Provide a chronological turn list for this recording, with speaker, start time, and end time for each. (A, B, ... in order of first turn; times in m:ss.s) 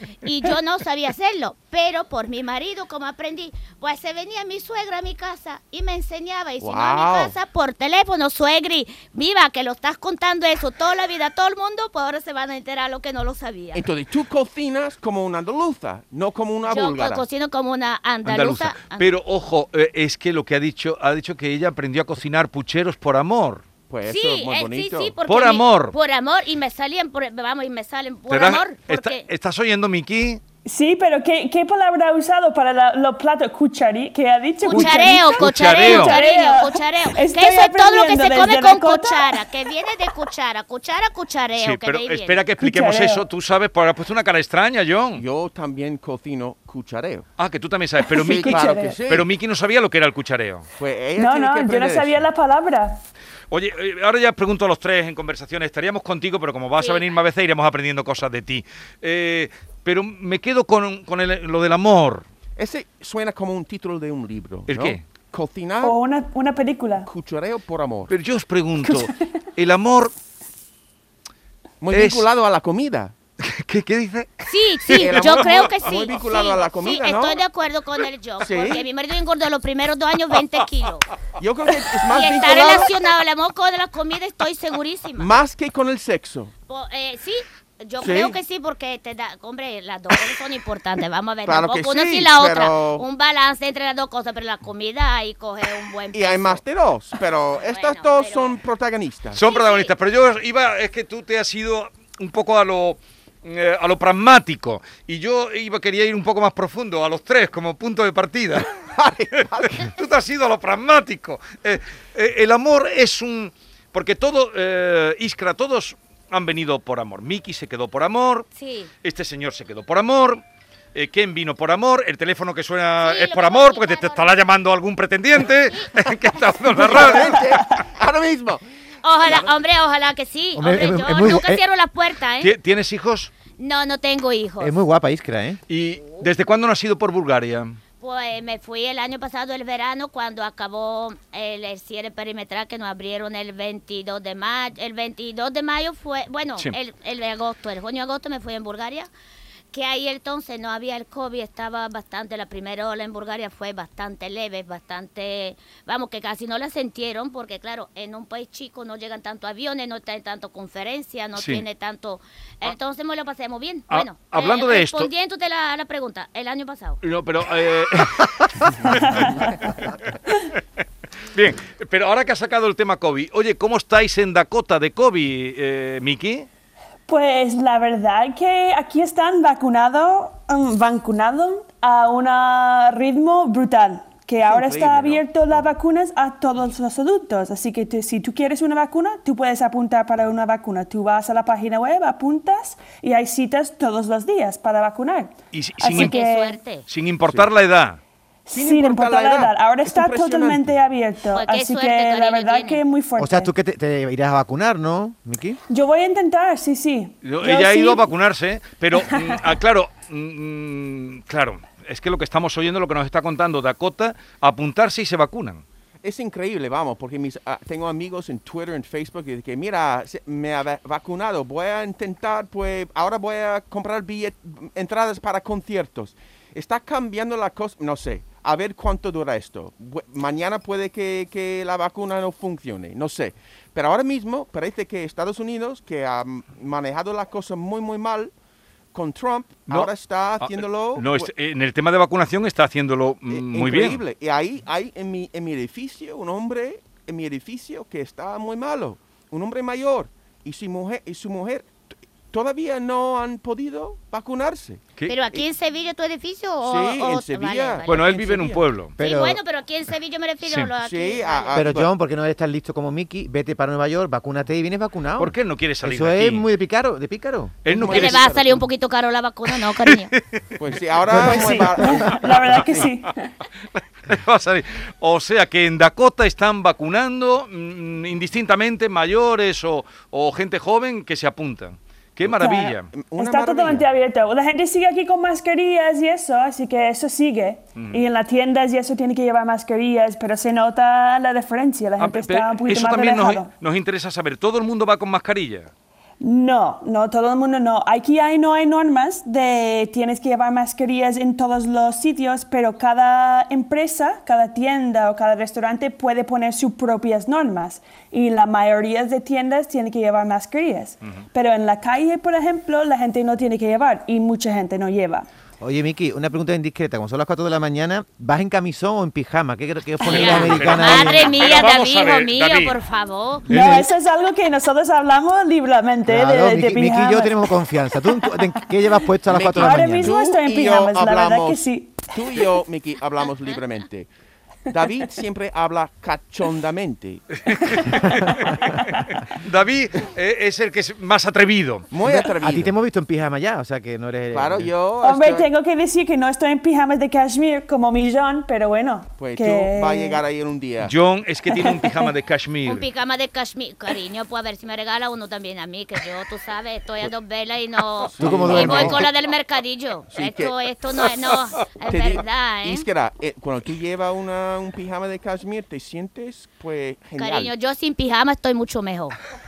0:00.2-0:13.8 A
0:06.6-0:07.3 B
0:13.7-0:17.2 B
0:16.7-0:19.1 A
0:18.2-0:23.6 C
0:23.9-0:25.1 B
0:24.0-0:29.2 A
0:25.3-0:25.9 C
0:28.3-0:30.4 C
0:30.6-0:39.5 D
0:34.6-0:42.4 A
0:34.7-0:36.2 C
0:41.5-0:45.2 C
0:42.6-0:43.2 D
0:45.1-0:47.2 B
0:47.4-0:50.6 C
0:48.1-0:49.0 D
0:48.2-0:49.3 B
0:50.8-0:52.2 B
0:51.2-0:53.0 D
0:53.5-1:02.2 C
0:56.8-0:57.0 A
1:02.6-1:06.0 B
1:04.7-1:05.0 C
1:05.8-1:07.1 D
1:07.0-1:08.1 B
1:08.1-1:10.1 C
1:08.8-1:09.1 D
1:11.8-1:13.1 B
1:11.9-1:12.3 C
1:13.4-1:15.3 C
1:14.4-1:21.1 A
1:14.9-1:17.4 B
1:18.4-1:18.8 B
1:21.4-1:23.0 B
1:22.1-1:25.3 A
1:25.2-1:26.5 B
1:26.7-1:36.6 A
1:28.0-1:28.4 B
1:31.4-1:33.0 B
1:36.1-1:39.4 B
1:37.6-1:38.5 A
1:39.3-1:48.7 C
1:39.4-1:39.9 A
1:48.8-1:49.9 B
1:49.3-1:58.5 C
1:58.5-1:58.9 A
1:59.0-2:00.4 C
2:00.9-2:07.5 C
2:03.0-2:04.3 A
2:06.7-2:08.6 B
2:09.0-2:12.5 A
2:09.2-2:09.5 B
2:10.6-2:11.6 E
2:12.4-2:13.3 C
2:13.6-2:14.8 A
2:14.6-2:15.6 E
2:15.7-2:17.8 C
2:18.0-2:29.1 A
2:29.7-2:47.0 A
2:41.4-2:41.6 C
2:43.9-2:45.1 C
2:47.0-2:50.6 C
2:48.8-2:49.7 D
2:51.3-2:56.5 C
2:57.1-3:16.6 D
3:04.4-3:05.6 B
3:15.5-3:16.1 C
3:15.9-3:16.8 A
3:16.9-3:18.0 C
3:18.4-3:23.5 D
3:18.5-3:20.8 B
3:21.3-3:22.8 A
3:23.2-3:25.6 E
3:25.7-3:28.1 D
3:27.2-3:35.6 C
3:29.0-3:29.4 D
3:36.0-3:58.3 B
3:58.9-4:01.3 B
3:59.7-4:04.0 C
4:03.3-4:11.7 B
4:12.3-4:15.4 B
4:15.1-4:18.0 A
4:16.6-4:18.6 B
4:17.9-4:18.9 C
4:19.0-4:19.4 E
4:19.0-4:21.6 A
4:20.4-4:20.7 C
4:20.8-4:21.9 B
4:21.5-4:27.6 E
4:25.2-4:26.4 C
4:27.6-4:28.2 C
4:27.7-4:28.6 B
4:27.9-4:30.1 A
4:29.5-4:30.4 C
4:30.6-4:32.9 B
4:31.1-4:31.6 E
4:31.2-4:33.3 D
4:33.7-4:42.9 C
4:42.3-4:53.5 D
4:42.9-4:43.9 B
4:47.8-4:48.0 C
4:52.0-4:55.7 C
4:56.2-5:15.3 D
5:15.6-5:21.4 E
5:20.0-5:23.7 A
5:20.1-5:22.8 C
5:23.5-5:27.5 D
5:23.5-5:23.9 E
5:26.1-5:30.2 E
5:29.3-5:34.1 B
5:29.3-5:29.6 C
5:29.6-5:32.1 D
5:34.7-5:38.1 B
5:37.5-5:41.9 C
5:41.9-5:42.7 B
5:42.0-5:44.7 E
5:44.3-5:45.5 B
5:45.0-5:50.2 D
5:49.2-5:50.9 B
5:50.8-5:52.9 C
5:51.5-5:52.1 D
5:52.6-6:02.9 A
5:58.1-5:59.0 B
5:58.2-5:59.0 E
6:00.1-6:00.5 B
6:01.9-6:07.5 B
6:07.2-6:09.2 A